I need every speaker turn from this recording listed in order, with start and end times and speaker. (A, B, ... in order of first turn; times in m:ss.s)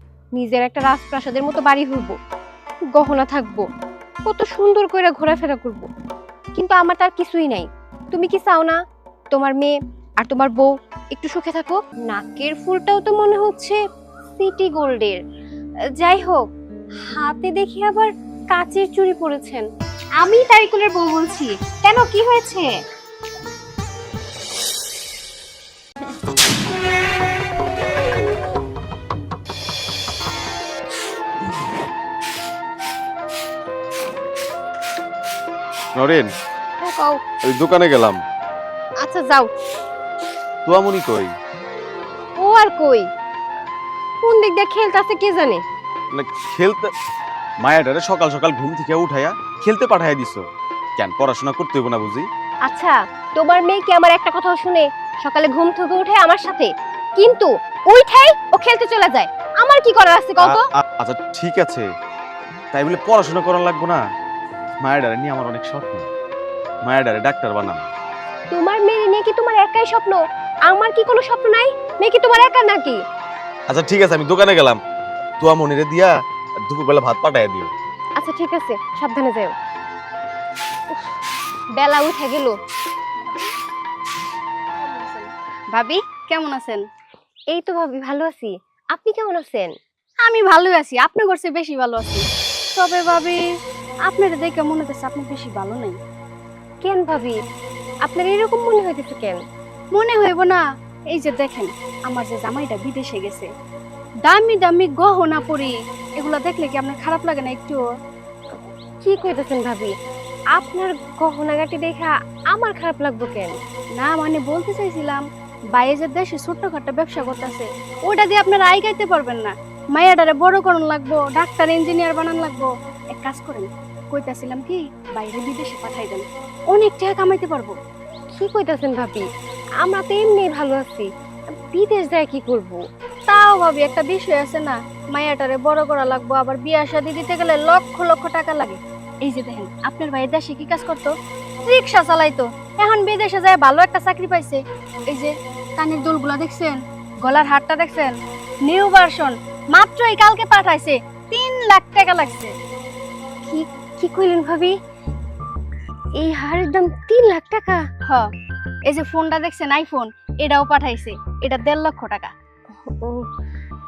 0:00.4-0:02.2 A
0:03.0-0:03.6 A
0:04.3-0:05.9 A
0:06.6-0:08.8 A
0:09.3-0:13.8 A
0:14.4-0:15.2 A
0:16.0-0:16.4 A
0:17.1-0:19.7 A
0:20.2-0:22.7 A
0:36.0-0:36.3 B
0:36.8-0:37.2 A
0:37.4-0:38.2 B
0:39.0-0:39.5 A
0:40.6-0:41.3 B
0:42.4-0:43.1 A
0:44.2-0:45.6 A
0:46.1-0:46.9 B
0:47.6-0:50.4 B
0:51.0-0:52.3 B
0:52.7-1:00.6 A
1:00.4-1:01.9 B
1:02.7-1:04.0 B
1:04.8-1:06.1 B
1:06.8-1:07.9 B
1:08.5-1:13.0 A
1:13.7-1:14.8 B
1:15.4-1:16.1 B
1:16.7-1:17.7 B
1:18.2-1:19.5 A
1:21.8-1:22.5 A
1:24.9-1:26.8 C
1:27.5-1:29.7 A
1:30.2-1:33.4 C
1:34.1-1:36.0 C
1:36.8-1:37.4 A
1:38.0-1:39.4 A
1:39.9-1:43.5 C
1:44.2-1:47.8 C
1:49.0-1:49.9 A
1:50.5-1:53.6 A
1:54.0-1:55.2 C
1:55.7-2:07.8 C
2:08.4-2:09.3 A
2:09.8-2:11.1 A
2:11.7-2:12.8 A
2:13.3-2:21.1 C
2:21.6-2:28.1 C
2:28.7-2:32.5 C
2:33.5-2:34.8 A
2:36.2-2:37.8 A
2:38.9-2:42.3 C
2:43.0-2:43.3 A